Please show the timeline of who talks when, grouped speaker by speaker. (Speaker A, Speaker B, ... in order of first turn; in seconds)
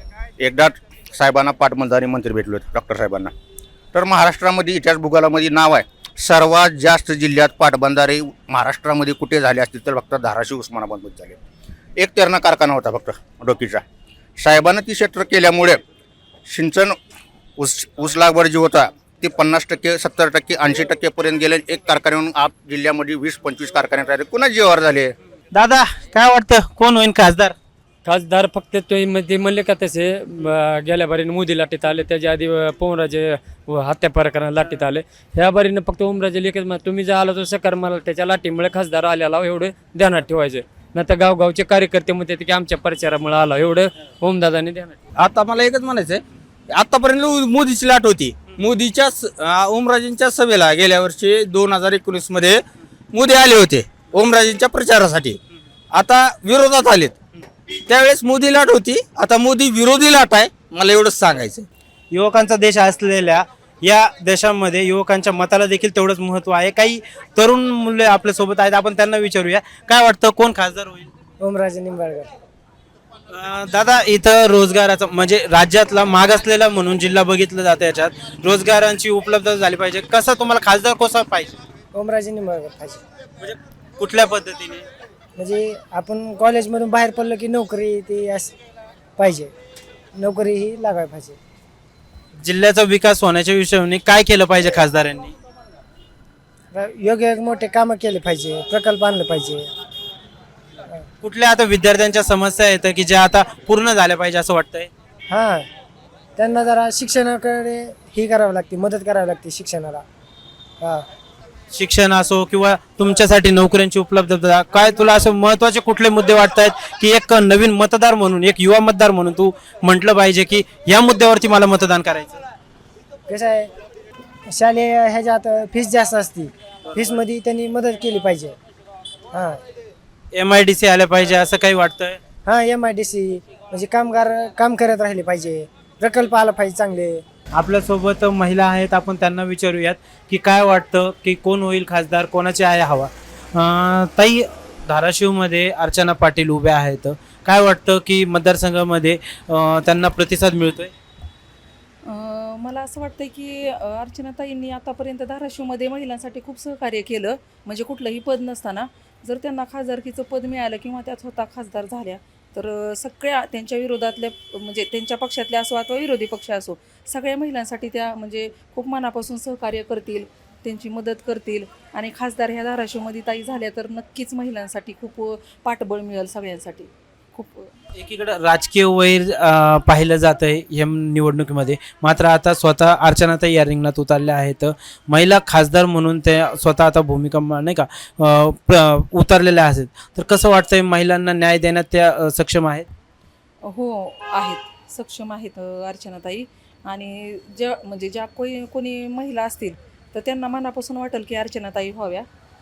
Speaker A: 0.4-3.3, 3.9-11.4, 12.0-13.8, 14.4-15.8, 16.5-17.0, 17.6-25.1
Speaker B: 25.5-27.6, 62.1-71.1, 73.3-81.6, 83.4-84.8, 92.4-95.3, 101.2-104.9, 111.7-122.4, 130.3-132.2, 137.5-150.9, 177.9-192.9
Speaker C: 28.1-45.0
Speaker D: 45.2-55.4, 55.9-57.1, 57.9-61.7
Speaker E: 71.4-72.3, 81.9-83.0, 85.4-88.5, 89.2-89.5, 90.2-91.4, 96.7-99.7, 105.3-105.7, 106.4-110.0, 123.3-123.7, 124.5-128.6, 129.3-129.6, 132.5-137.2
Speaker F: 152.1-177.7, 193.6-202.3